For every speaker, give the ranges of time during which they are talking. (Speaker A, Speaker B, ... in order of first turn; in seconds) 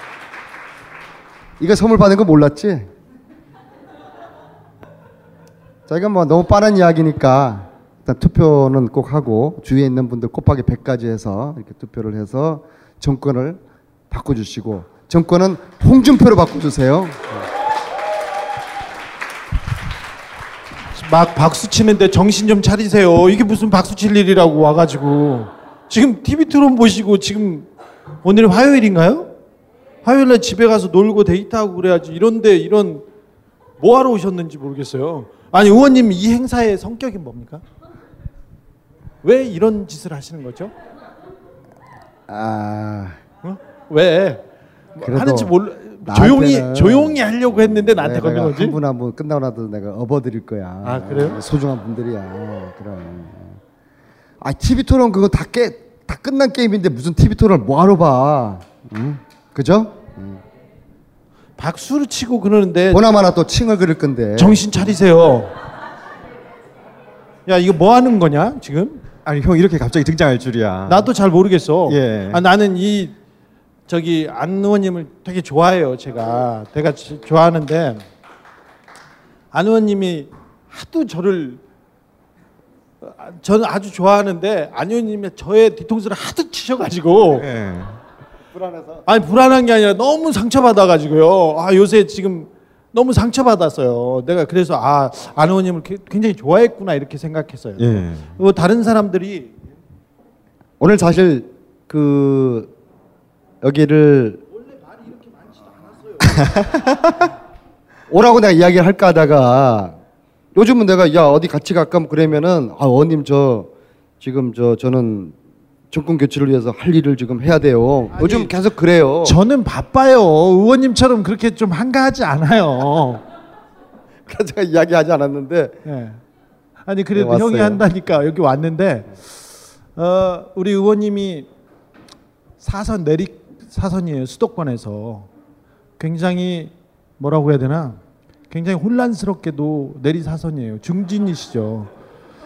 Speaker A: 1.6-2.9, 5.9-13.6, 14.1-17.4, 42.3-43.2, 45.0-53.6, 54.4-60.4, 62.9-64.8, 88.5-89.0, 100.8-102.7, 103.6-104.4, 108.1-110.0, 110.5-113.7, 114.2-115.3, 115.9-119.4, 124.3-125.8, 127.1-127.8
Speaker B: 20.9-27.7, 28.2-29.3, 30.0-33.0, 33.8-37.6, 39.2-40.7, 43.4-44.4, 45.0-48.8, 50.8-51.4, 61.6-63.0, 64.4-65.5, 67.5-69.0, 70.9-73.2, 73.9-78.0, 79.5-81.6, 83.0-87.5, 89.1-99.5, 105.2-106.4, 118.1-118.5, 119.2-123.2, 125.8-126.2, 126.8-129.2, 129.9-131.5, 132.6-135.3, 136.0-141.9
Speaker C: 69.2-71.1, 71.9-72.5, 87.4-88.0, 97.8-98.4, 106.6-107.1